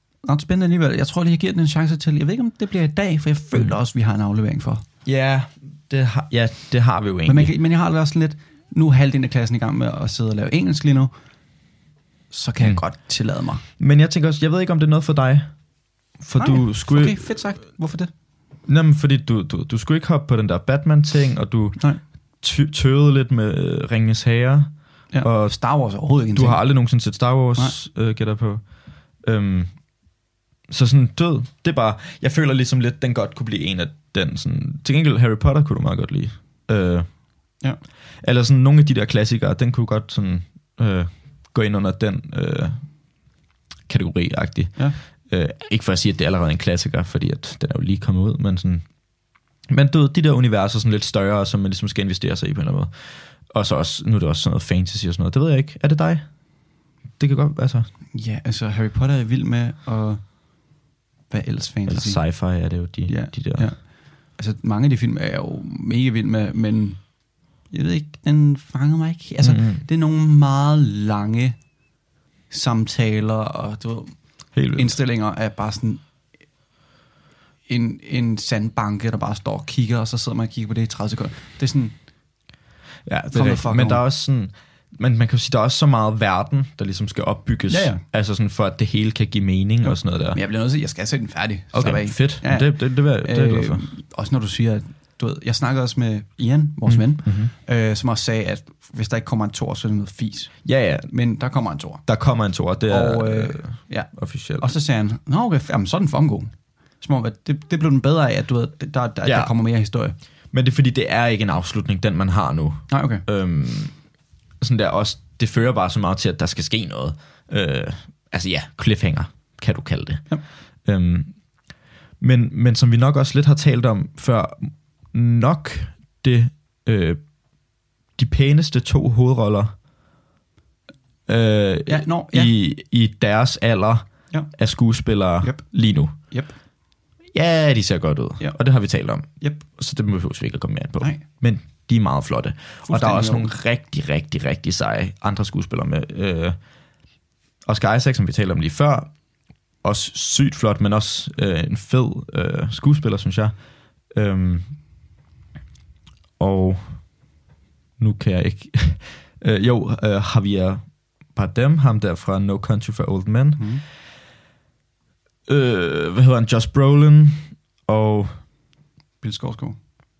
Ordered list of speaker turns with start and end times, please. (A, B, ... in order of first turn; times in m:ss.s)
0:00.2-0:04.8 A
0:05.0-0:07.5 B
0:07.2-0:11.1 A
0:12.3-0:13.6 A
0:12.6-0:12.9 B
0:13.8-0:17.5 B
0:16.4-0:18.1 A
0:18.6-0:30.0 B
0:21.8-0:22.0 A
0:25.1-0:27.8 A
0:30.7-0:37.6 B
0:38.2-0:43.3 B
0:43.8-0:57.9 B
0:58.1-1:00.8 A
1:01.3-1:11.7 A
1:01.9-1:03.7 B
1:09.4-1:09.8 B
1:12.5-1:16.0 A
1:14.5-1:15.0 B
1:17.6-1:22.0 A
1:23.0-1:30.4 B
1:23.3-1:24.0 A
1:27.7-1:28.0 A
1:29.8-1:50.2 A
1:31.7-1:33.9 B
1:36.8-1:37.5 B
1:40.6-1:41.1 B
1:42.0-1:44.7 B
1:49.2-1:49.5 B
1:50.2-2:09.8 B
1:52.9-1:53.2 A
2:11.3-2:16.2 B
2:11.9-2:12.5 A
2:14.3-2:16.6 A
2:17.3-2:27.0 B
2:18.4-2:19.6 A
2:22.8-2:23.6 A
2:27.6-2:34.8 B
2:36.4-2:37.3 B
2:38.0-2:43.8 B
2:43.6-2:43.8 A
2:45.5-2:48.5 B
2:49.2-2:49.8 A